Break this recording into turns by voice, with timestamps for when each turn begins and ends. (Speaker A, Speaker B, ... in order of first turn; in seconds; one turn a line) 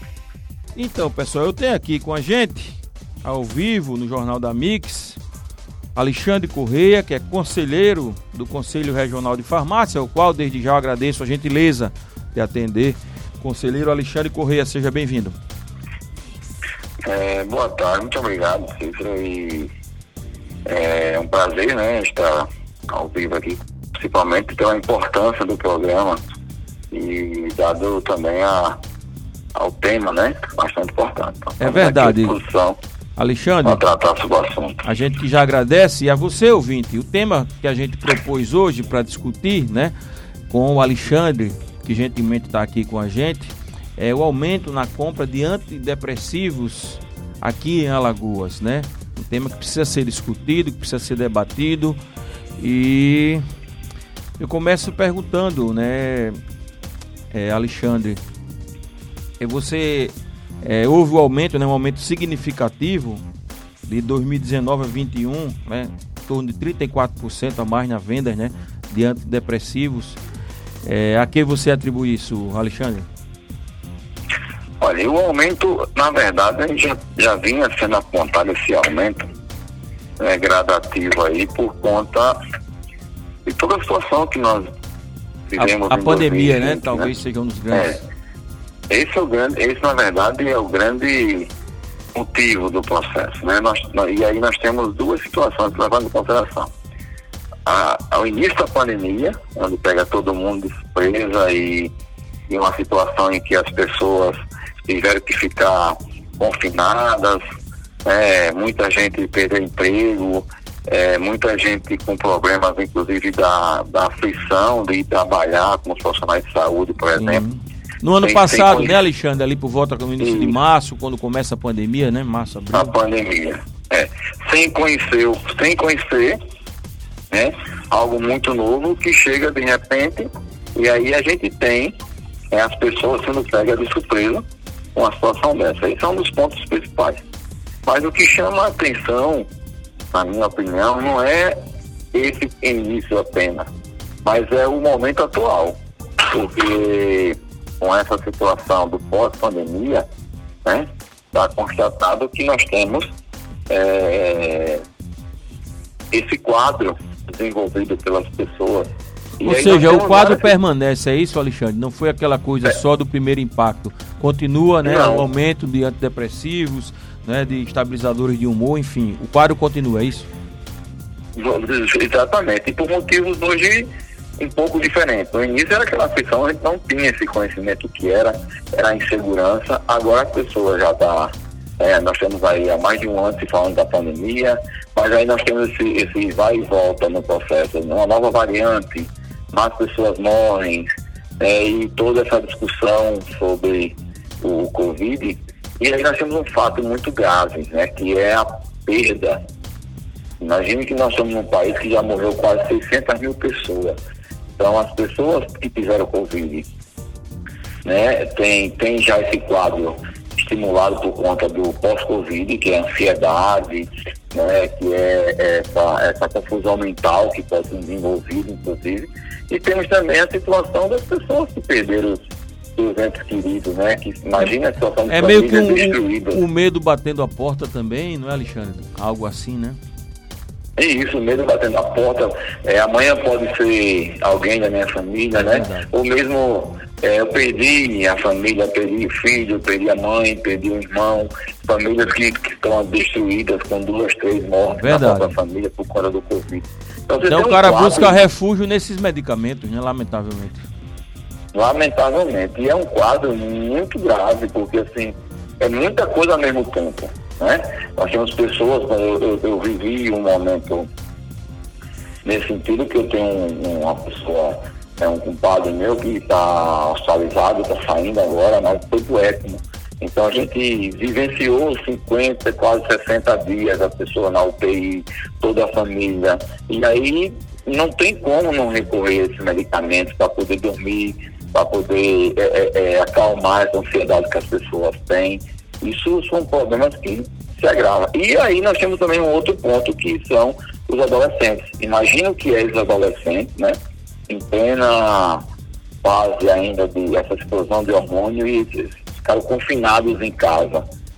Speaker A: 0.7-5.2
Speaker A: 5.9-15.4
Speaker B: 17.0-19.7
Speaker B: 20.6-26.2
Speaker B: 26.9-28.8
Speaker B: 29.5-32.8
Speaker A: 31.6-32.4
Speaker A: 33.2-33.8
Speaker B: 33.6-34.9
Speaker A: 34.8-39.9
Speaker A: 40.5-52.0
Speaker A: 52.6-53.4
Speaker A: 54.4-56.4
Speaker A: 57.3-58.2
Speaker A: 59.4-63.2
Speaker A: 63.8-70.2
Speaker A: 70.8-73.1
Speaker B: 74.8-79.3
Speaker B: 80.2-82.4
Speaker B: 83.5-84.7
Speaker B: 85.5-87.1
Speaker A: 85.6-88.0
Speaker B: 87.7-88.0
Speaker B: 88.9-91.5
Speaker B: 92.1-96.7
Speaker B: 97.7-101.9
Speaker B: 102.5-107.4
Speaker B: 108.0-117.4
Speaker A: 117.2-122.9
Speaker B: 118.2-119.0
Speaker B: 120.2-120.6
Speaker B: 122.7-126.4
Speaker B: 127.3-131.9
Speaker B: 132.5-137.2
Speaker B: 137.8-139.5
Speaker B: 140.1-141.6
Speaker B: 142.1-143.7
Speaker B: 144.2-150.1
Speaker B: 150.6-153.1
Speaker B: 153.7-154.8
Speaker B: 156.1-160.5
Speaker A: 159.4-170.3
Speaker B: 164.8-165.3
Speaker B: 171.3-190.9
Speaker B: 191.4-199.4
Speaker B: 200.4-204.0
Speaker B: 204.6-206.7
Speaker B: 207.8-222.2
Speaker B: 222.8-226.4
Speaker A: 225.1-229.8
Speaker B: 230.8-248.3
Speaker A: 235.3-235.9
Speaker A: 244.7-245.3
Speaker A: 247.2-250.7
Speaker B: 251.5-260.9
Speaker B: 262.2-293.8
Speaker B: 294.3-295.4
Speaker B: 296.0-300.9